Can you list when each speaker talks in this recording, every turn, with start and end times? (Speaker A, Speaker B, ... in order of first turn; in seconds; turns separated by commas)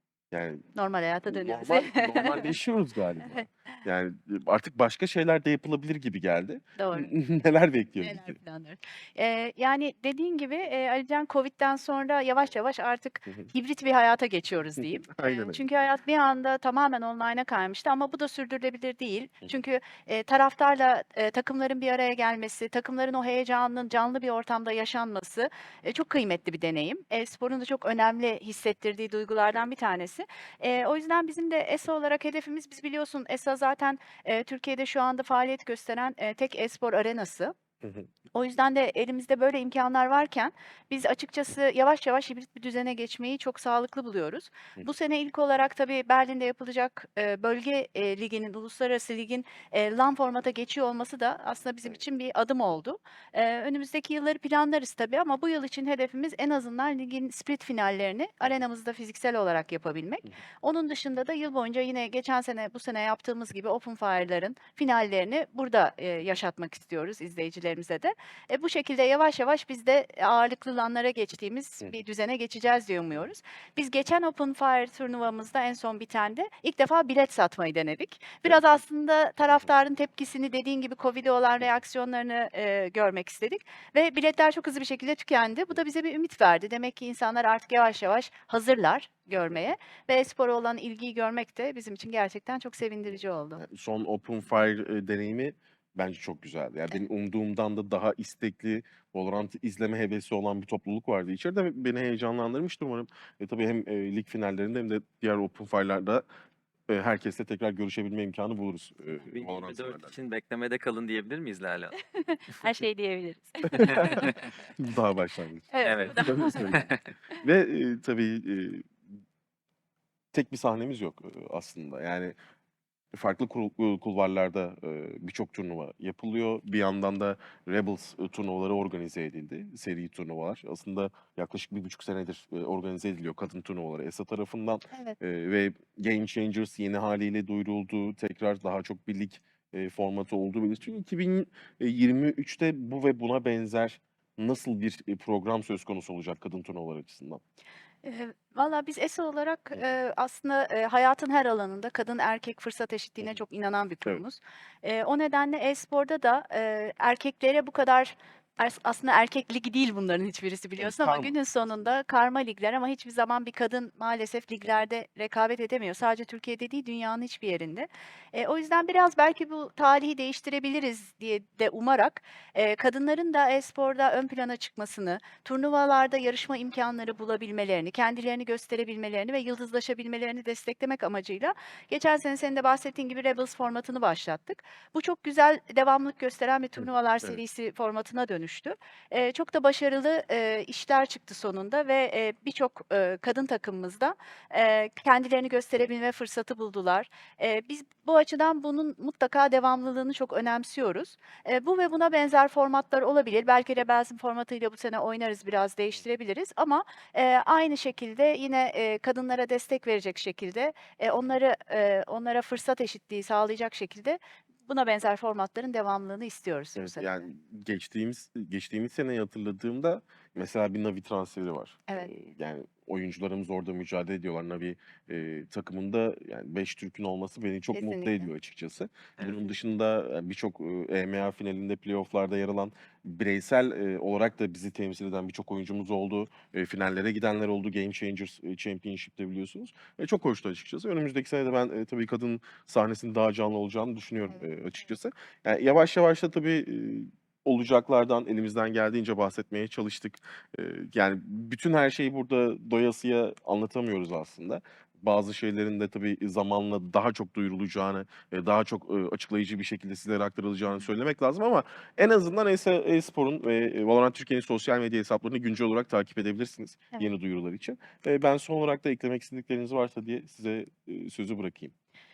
Speaker A: 0.3-0.6, Speaker B: 0.7-2.5, Speaker A: 1.3-8.3, Speaker B: 6.8-7.1, Speaker B: 8.0-37.5, Speaker A: 14.9-15.6, Speaker B: 38.3-93.6, Speaker A: 93.6-106.2, Speaker A: 106.9-110.1, Speaker C: 109.3-112.0, Speaker B: 112.1-114.3, Speaker C: 113.7-114.5, Speaker A: 114.0-114.2, Speaker A: 114.8-116.8, Speaker B: 115.7-116.8, Speaker C: 115.8-117.0, Speaker A: 117.4-118.9, Speaker A: 120.3-122.3, Speaker A: 123.1-147.4, Speaker B: 148.0-217.2, Speaker A: 160.8-161.7, Speaker A: 216.8-271.7, Speaker B: 227.7-228.3, Speaker C: 229.2-229.5